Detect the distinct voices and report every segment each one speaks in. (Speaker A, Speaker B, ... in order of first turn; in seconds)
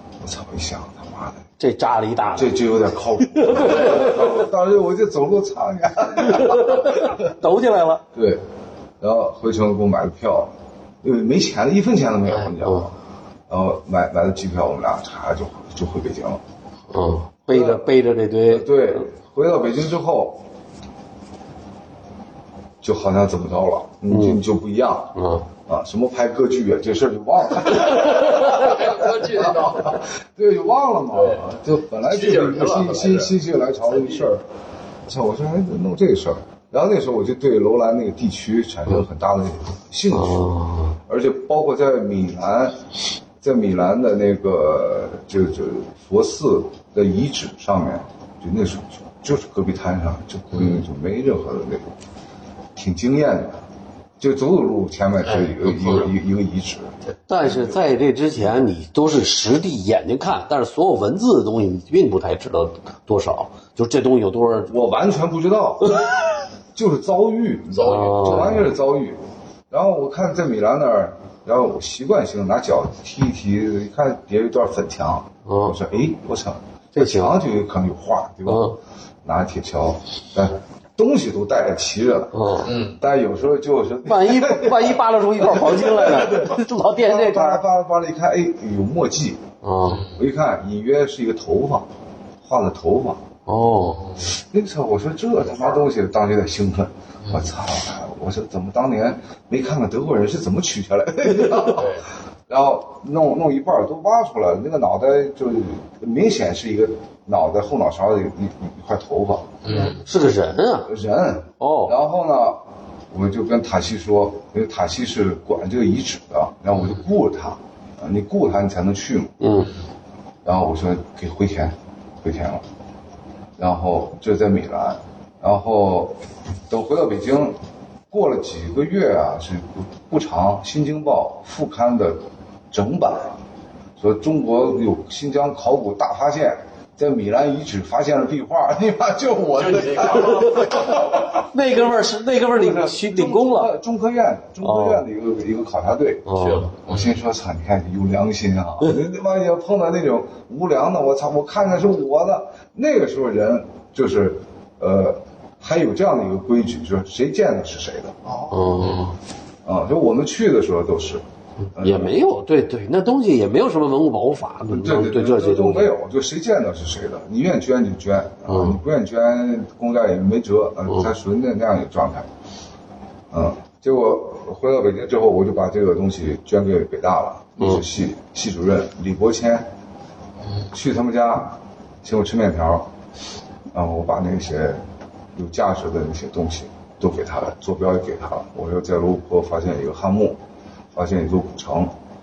Speaker A: 0.2-1.4, 2.3-7.3, 8.1-8.4, 9.0-13.0, 13.5-16.4, 17.5-17.9, 18.5-20.4, 22.8-34.5, 35.0-40.5, 41.1-42.9, 43.4-52.0, 52.8-53.6, 54.2-57.8, 64.7-66.0, 66.7-69.2, 69.7-89.5, 90.1-91.9, 92.4-93.2, 94.2-109.8, 110.8-112.6, 113.1-119.4, 120.5-122.7, 123.6-127.6, 128.1-133.4, 134.0-141.5, 142.5-146.3, 146.8-158.4, 159.7-161.2, 161.8-162.3, 164.7-172.3, 173.3-179.7, 180.7-182.9, 183.7-184.8, 185.3-190.4, 190.9-191.9
Speaker B: 1.6-2.6, 3.2-4.4, 6.2-8.0, 16.9-19.0, 24.1-24.4, 25.1-25.5, 40.1-41.0, 57.3-64.7, 67.8-68.7, 75.5-75.8, 76.9-77.4, 78.5-78.8, 82.3-82.7, 84.0-87.6, 89.6-90.0, 93.5-94.0, 109.9-110.9, 111.6-112.0, 119.4-119.7, 141.5-143.7, 144.6-145.1, 146.3-146.7, 158.5-159.2, 161.7-165.9, 168.5-168.8
Speaker C: 12.3-12.5, 27.9-30.1, 31.1-31.5, 32.0-33.3, 34.0-34.2, 50.5-50.8, 55.2-56.1, 67.7-68.6, 82.6-83.0, 89.8-90.2, 93.8-94.3, 97.2-97.5, 101.7-102.1, 109.6-110.1, 116.7-117.0, 139.5-141.2, 146.3-147.2, 158.8-159.1, 180.4-180.7